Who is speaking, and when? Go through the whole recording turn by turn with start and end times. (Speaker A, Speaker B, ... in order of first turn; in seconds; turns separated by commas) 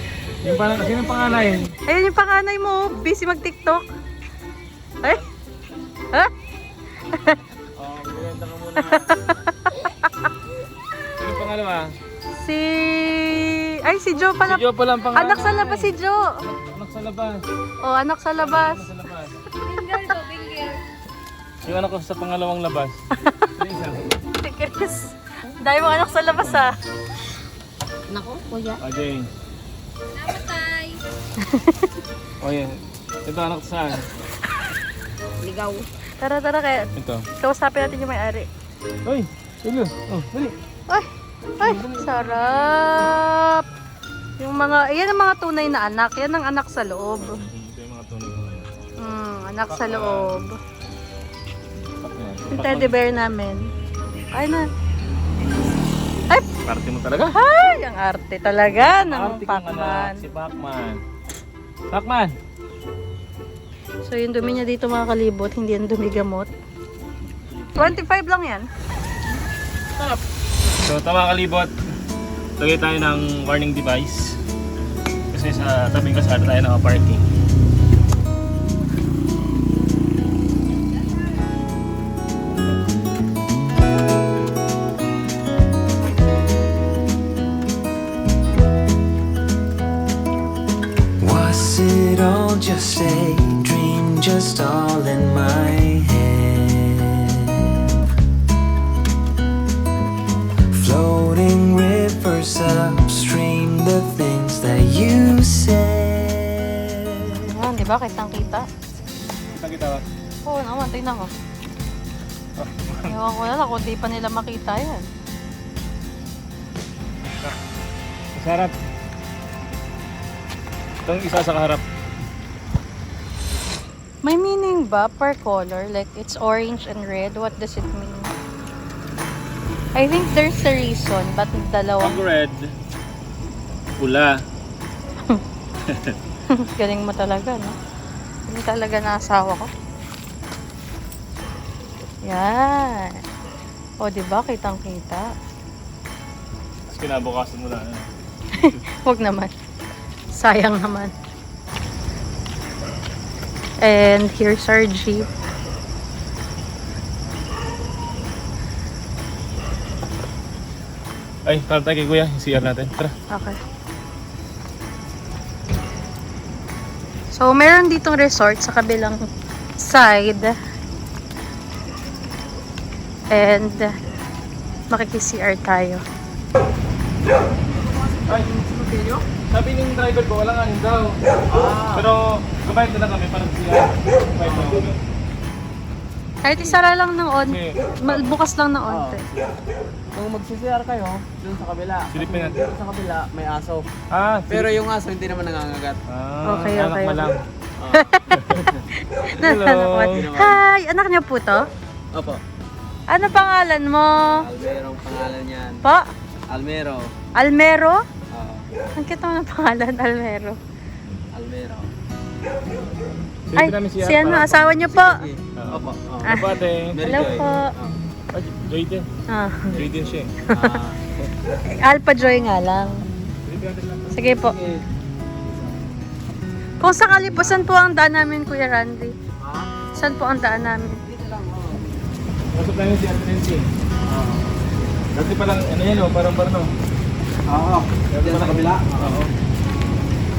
Speaker A: 0.4-1.7, Speaker B: 1.9-3.8, Speaker A: 7.8-9.2, Speaker B: 8.9-10.1, Speaker A: 11.2-11.9, Speaker B: 12.4-16.3, Speaker A: 14.2-15.9, Speaker A: 16.4-17.4, Speaker B: 17.8-18.8, Speaker A: 18.4-19.3, Speaker C: 19.6-20.8, Speaker A: 21.6-23.0, Speaker A: 23.5-24.0, Speaker B: 24.4-26.7, Speaker A: 26.4-26.7, Speaker C: 28.1-28.8, Speaker A: 28.8-29.3, Speaker C: 30.1-31.0, Speaker B: 31.5-31.8, Speaker A: 32.4-34.0, Speaker C: 35.4-35.9, Speaker B: 36.2-38.5, Speaker A: 37.0-37.2, Speaker A: 39.0-40.5, Speaker B: 41.6-43.6, Speaker D: 41.8-42.1, Speaker B: 44.4-47.4, Speaker A: 47.3-48.7, Speaker B: 49.0-50.5, Speaker A: 49.7-50.5, Speaker A: 52.0-53.0, Speaker B: 52.5-53.6, Speaker B: 54.3-54.6, Speaker A: 56.6-57.3, Speaker B: 57.3-60.2, Speaker A: 59.0-61.0, Speaker A: 61.9-62.3, Speaker B: 64.0-66.5, Speaker A: 67.5-68.0, Speaker B: 67.8-68.7, Speaker A: 70.8-71.7, Speaker A: 72.6-74.4, Speaker A: 75.3-77.2, Speaker E: 91.2-97.8, Speaker E: 100.7-107.4, Speaker B: 107.5-108.7, Speaker A: 109.5-110.0, Speaker B: 110.5-111.3, Speaker A: 112.6-113.1, Speaker B: 113.1-115.1, Speaker A: 118.3-118.7, Speaker A: 121.1-121.8, Speaker B: 124.2-128.3, Speaker B: 129.9-132.2, Speaker A: 132.0-132.7, Speaker A: 134.0-134.3, Speaker A: 135.9-136.1, Speaker B: 136.6-137.7, Speaker B: 138.5-139.7, Speaker B: 142.3-143.2, Speaker B: 144.0-145.3, Speaker A: 146.9-148.1, Speaker B: 148.6-149.5, Speaker B: 150.3-151.1, Speaker B: 153.8-155.3, Speaker A: 161.5-163.1, Speaker B: 163.3-163.6, Speaker B: 167.3-169.2, Speaker B: 169.8-170.5, Speaker B: 173.3-173.9, Speaker B: 174.9-176.0, Speaker D: 177.9-179.2, Speaker A: 179.5-181.1, Speaker D: 181.5-182.1, Speaker A: 181.9-185.0, Speaker D: 184.4-184.9, Speaker B: 186.4-189.2, Speaker A: 187.4-188.4, Speaker D: 188.9-189.5, Speaker D: 190.1-193.8, Speaker A: 192.1-192.6, Speaker A: 194.1-194.7, Speaker D: 194.5-196.0, Speaker A: 196.1-197.4, Speaker B: 196.5-197.2, Speaker D: 197.8-198.8, Speaker B: 197.9-198.5, Speaker B: 199.2-201.6, Speaker A: 199.4-200.2, Speaker D: 200.1-200.6, Speaker D: 202.1-202.4, Speaker B: 203.1-204.3, Speaker D: 204.2-205.8, Speaker D: 206.5-207.1, Speaker B: 207.3-208.0, Speaker D: 208.3-208.7, Speaker B: 209.0-210.6, Speaker D: 211.3-211.9, Speaker A: 213.5-214.5, Speaker B: 213.6-215.2, Speaker D: 214.9-217.9, Speaker A: 215.6-216.9, Speaker B: 217.0-217.7, Speaker A: 218.3-219.1, Speaker B: 219.3-219.7, Speaker D: 219.7-221.0, Speaker A: 219.8-220.3, Speaker B: 221.8-222.9, Speaker A: 223.5-224.2, Speaker B: 224.1-224.5, Speaker B: 226.8-229.1, Speaker D: 227.3-227.6, Speaker D: 229.4-229.7, Speaker B: 230.0-231.0, Speaker D: 231.0-231.9, Speaker A: 232.5-233.7, Speaker D: 234.1-234.4, Speaker A: 235.2-236.7, Speaker D: 237.5-239.2, Speaker A: 238.1-239.3